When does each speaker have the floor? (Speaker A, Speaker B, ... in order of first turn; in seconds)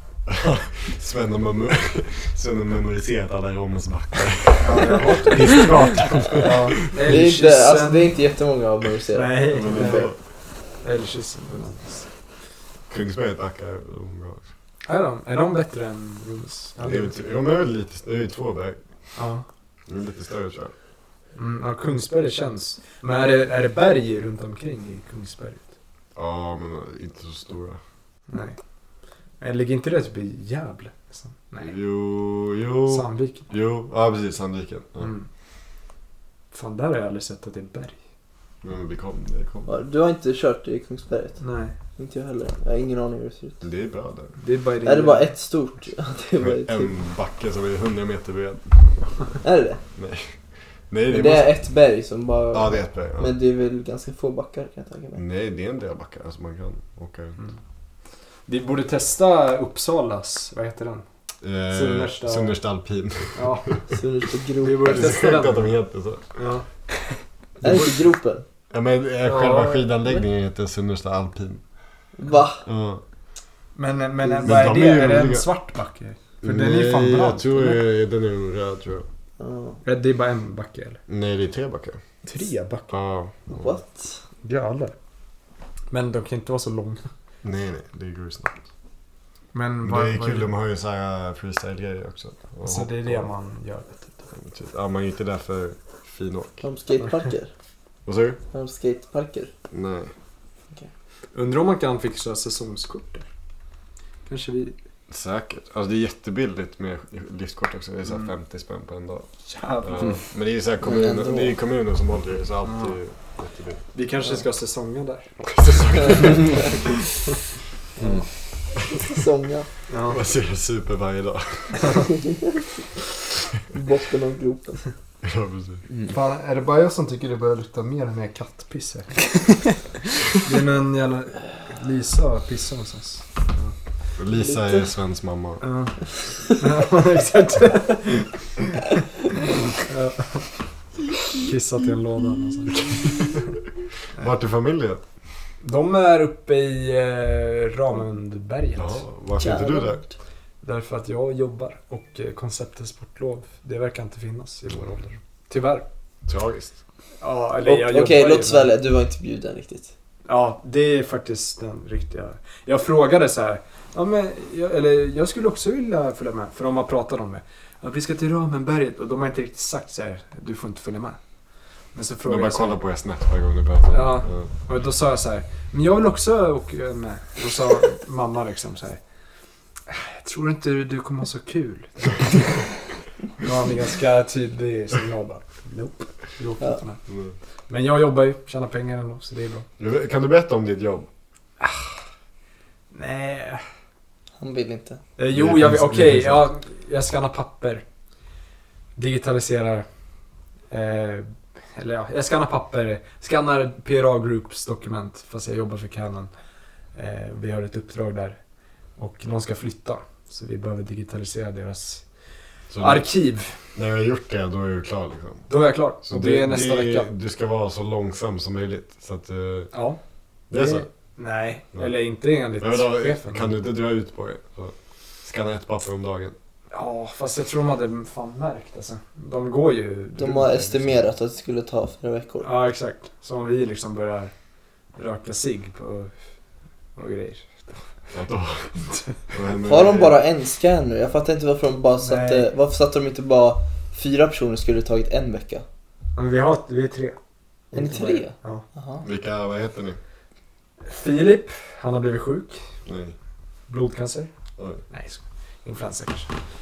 Speaker A: 0.3-6.8, 9.5-10.2, 12.9-14.5, 16.8-18.8, 19.9-20.7, 26.2-27.8, 31.6-35.1, 38.6-39.8, 43.6-44.4, 46.4-48.9, 50.0-50.4, 50.9-51.5, 52.5-53.3, 55.2-57.4, 61.4-63.7, 64.8-66.2, 68.7-71.6, 72.7-73.0, 74.4-75.5, 76.4-79.1, 81.1-82.0, 82.9-83.8, 87.4-88.6, 89.8-93.3, 94.4-96.7, 98.1-98.4, 99.7-100.1, 105.1-109.3, 109.8-113.8, 115.5-116.8, 120.1-122.0, 125.2-125.8, 134.2-135.6, 144.2-145.0, 148.8-150.0, 156.3-156.8, 172.3-174.5, 187.1-187.3, 189.8-191.1, 195.3-196.5, 212.7-213.1, 213.8-215.5, 216.0-219.7, 220.5-220.9, 222.6-226.4, 238.1-238.7, 239.3-240.2, 249.0-250.0, 252.9-253.2
Speaker B: 4.6-8.1, 9.1-10.1, 10.8-12.1, 14.9-17.1, 19.2-19.4, 21.4-25.7, 28.3-28.6, 29.4-31.7, 32.9-33.5, 35.0-35.3, 36.5-38.0, 41.4-41.7, 44.4-45.3, 58.5-61.0, 61.7-62.6, 63.4-63.8, 64.6-65.7, 66.4-66.7, 67.6-67.9, 69.2-69.9, 73.8-77.8, 79.8-81.0, 82.2-82.9, 84.4-84.9, 85.9-87.0, 89.5-90.5, 92.7-94.3, 101.3-103.3, 104.3-104.8, 109.5-110.2, 112.7-113.0, 113.9-116.9, 118.0-118.2, 119.9-120.2, 126.1-129.6, 130.3-133.8, 135.6-138.8, 139.8-140.6, 141.3-143.4, 145.6-149.1, 150.6-155.9, 157.2-158.7, 160.3-171.2, 171.9-172.8, 173.9-179.0, 179.9-182.7, 183.4-187.0, 187.7-189.7, 191.6-192.0, 192.9-193.6, 195.2-197.8, 199.0-199.9, 200.7-206.3, 207.0-208.4, 209.0-212.0, 212.8-213.6, 215.5-217.1, 219.7-220.0, 220.5-223.5, 226.7-230.6, 232.4-234.3, 235.0-236.1, 237.0-238.0, 242.0-242.5, 246.2-247.2, 247.7-248.6, 250.9-252.6, 253.7-254.3, 254.9-256.3
Speaker C: 7.0-10.1, 39.7-41.4, 42.0-43.6, 44.9-47.0, 49.4-49.8, 51.1-55.2, 63.9-65.0, 67.6-68.4, 72.2-72.6, 74.2-74.5, 79.4-79.8, 83.5-84.2, 96.6-97.5, 98.5-99.5, 110.8-111.6, 118.9-119.7, 123.7-124.8, 134.4-134.9, 149.4-150.1, 157.6-159.9, 194.4-195.0, 230.2-232.5, 239.6-245.7, 247.7-249.1